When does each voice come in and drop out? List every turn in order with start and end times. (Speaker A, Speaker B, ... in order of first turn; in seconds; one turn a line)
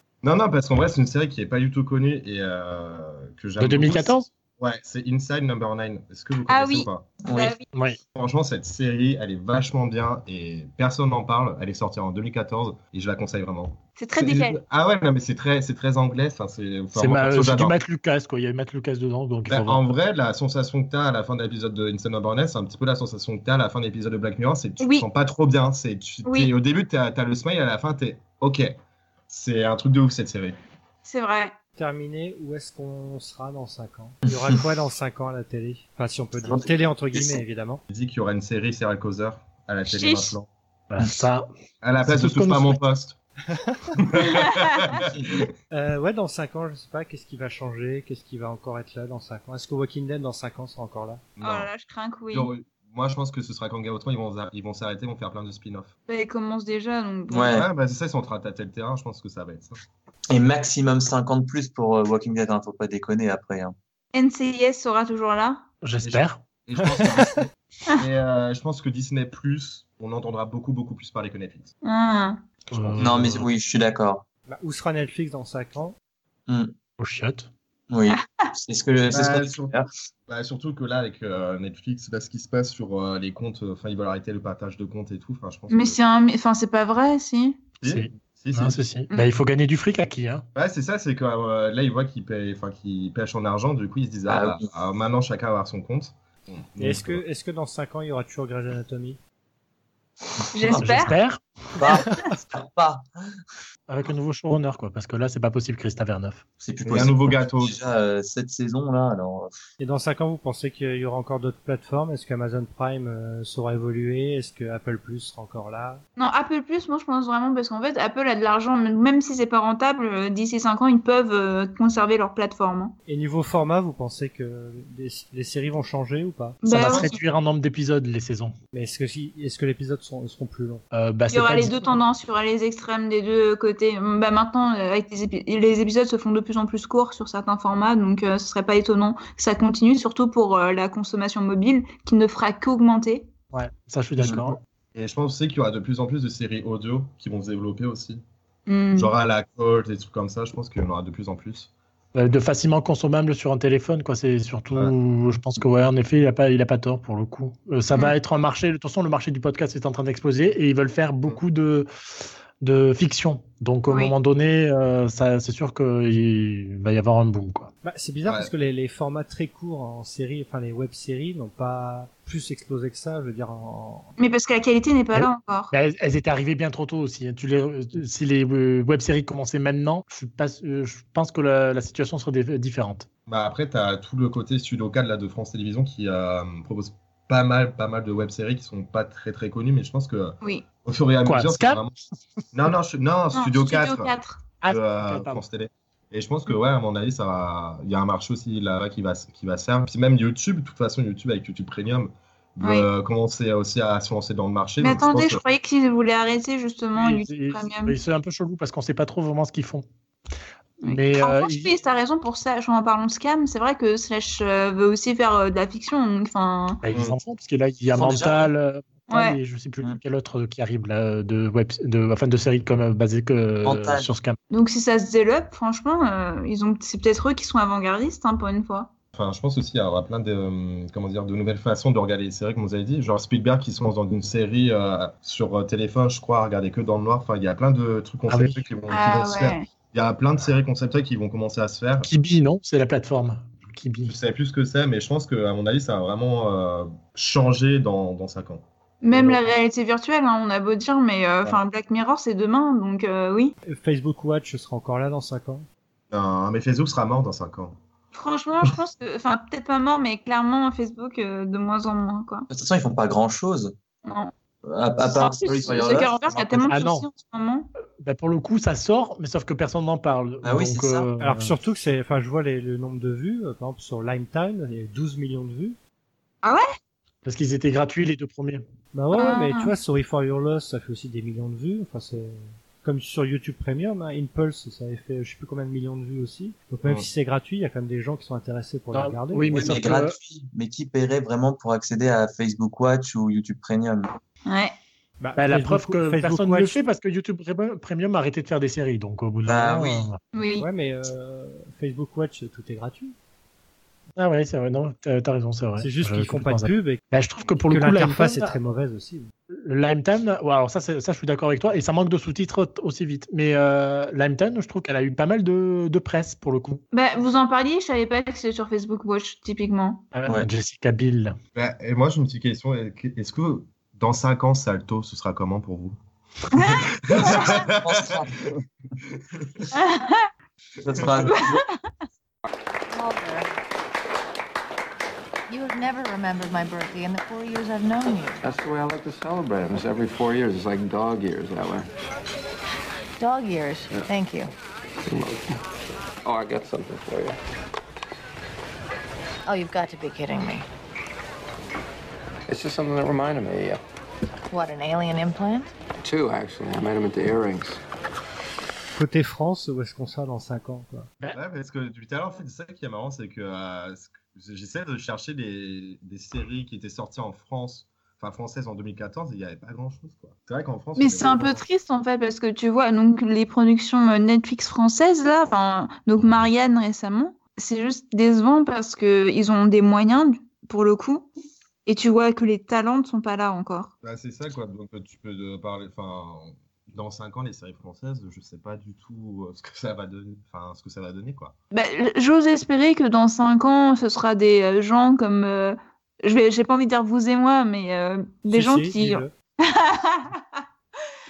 Speaker A: 0.2-7.1
Speaker B: 3.6-4.3
Speaker C: 6.5-7.7
Speaker D: 7.3-7.6
Speaker B: 7.7-8.0
Speaker A: 8.2-17.8
Speaker C: 14.0-14.6
Speaker B: 16.9-19.8
Speaker A: 19.5-28.8
Speaker C: 24.8-25.1
Speaker C: 26.2-26.5
Speaker A: 29.3-30.6
Speaker C: 31.1-31.5
Speaker E: 31.8-37.8
Speaker D: 34.3-34.6
Speaker D: 36.4-37.4
Speaker A: 37.9-40.5
Speaker C: 39.9-40.3
Speaker B: 40.9-41.5
Speaker A: 41.8-43.2
Speaker B: 42.0-42.8
Speaker E: 43.5-44.0
Speaker A: 44.0-45.5
Speaker C: 44.3-44.6
Speaker E: 45.7-51.2
Speaker A: 51.4-51.7
Speaker C: 51.4-52.5
Speaker A: 52.3-55.9
Speaker C: 56.1-57.6
Speaker D: 57.3-57.7
Speaker A: 57.5-59.8
Speaker D: 60.3-63.8
Speaker C: 64.1-65.6
Speaker B: 65.8-67.2
Speaker A: 66.0-71.7
Speaker C: 71.8-72.4
Speaker B: 72.7-73.5
Speaker A: 72.7-73.4
Speaker D: 73.0-74.2
Speaker E: 74.5-76.0
Speaker D: 76.5-76.7
Speaker B: 77.0-77.5
Speaker D: 77.9-79.9
Speaker C: 78.1-78.5
Speaker A: 79.1-79.8
Speaker A: 80.3-86.0
Speaker C: 85.7-87.6
Speaker A: 87.8-88.8
Speaker B: 87.9-90.5
Speaker A: 90.5-97.2
Speaker D: 94.3-94.7
Speaker E: 96.8-99.2
Speaker D: 100.4-101.1
Speaker C: 100.5-101.1
Speaker B: 100.8-101.8
Speaker D: 101.8-103.1
Speaker B: 103.9-106.4
Speaker D: 106.6-109.5
Speaker A: 106.9-107.8
Speaker E: 109.8-116.0
Speaker C: 116.2-123.0
Speaker E: 123.1-126.6
Speaker C: 126.6-127.2
Speaker B: 126.7-128.6
Speaker E: 128.7-130.8
Speaker B: 130.9-131.7
Speaker C: 131.3-143.3
Speaker B: 143.5-144.6
Speaker A: 144.2-148.2
Speaker C: 148.7-149.1
Speaker A: 148.9-151.7
Speaker B: 152.2-167.7
Speaker C: 163.9-164.2
Speaker E: 167.8-174.2
Speaker A: 168.2-168.5
Speaker C: 174.2-175.7
Speaker B: 175.1-183.1
Speaker A: 183.3-191.9
Speaker B: 191.3-191.8
Speaker A: 192.5-194.1
Speaker C: 193.3-194.4
Speaker B: 194.6-195.4
Speaker A: 194.7-205.4
Speaker C: 202.6-202.9
Speaker C: 204.8-208.0
Speaker B: 207.0-209.9
Speaker B: 210.8-211.7
Speaker C: 210.8-216.8
Speaker B: 216.8-224.4
Speaker D: 217.9-218.5
Speaker C: 219.1-219.4
Speaker D: 223.6-224.1
Speaker C: 224.5-228.9
Speaker A: 229.2-242.1
Speaker B: 238.3-238.7
Speaker C: 238.9-239.6
Speaker B: 242.1-244.1
Speaker A: 244.1-249.4
Speaker C: 249.0-253.6
Speaker E: 253.7-255.7
Speaker A: 256.1-257.8
Speaker C: 258.1-262.5
Speaker D: 262.5-263.7
Speaker C: 264.1-264.3
Speaker D: 264.7-266.7
Speaker C: 265.0-267.7
Speaker B: 266.7-267.1
Speaker B: 268.0-271.6
Speaker D: 270.4-271.1
Speaker E: 271.2-275.8
Speaker B: 277.2-278.6
Speaker E: 278.9-289.8
Speaker C: 279.1-279.7
Speaker B: 288.9-290.2
Speaker D: 289.6-294.2
Speaker C: 294.5-294.7
Speaker E: 295.2-296.8
Speaker B: 295.4-300.2
Speaker D: 299.5-300.0
Speaker C: 300.3-300.7
Speaker E: 300.6-303.1
Speaker B: 304.2-308.6
Speaker E: 305.8-307.0
Speaker E: 307.7-309.3
Speaker B: 309.5-316.8
Speaker C: 316.9-320.0
Speaker B: 320.1-321.4
Speaker A: 321.6-326.0
Speaker A: 326.5-329.7
Speaker C: 326.6-327.7
Speaker D: 327.3-328.4
Speaker C: 329.7-330.3
Speaker D: 330.8-331.6
Speaker A: 330.9-331.2
Speaker C: 331.4-331.8
Speaker F: 332.9-333.5
Speaker F: 335.5-338.4
Speaker G: 338.4-341.9
Speaker F: 343.2-344.5
Speaker G: 345.0-345.6
Speaker G: 346.2-347.4
Speaker F: 349.5-350.7
Speaker G: 352.5-353.8
Speaker F: 354.5-355.7
Speaker G: 356.0-357.8
Speaker E: 358.9-361.1
Speaker A: 361.3-371.6
Speaker C: 371.0-381.3
Speaker A: 376.2-376.5
Speaker C: 381.9-383.9
Speaker A: 384.0-391.6
Speaker C: 391.7-400.6
Speaker E: 398.5-399.3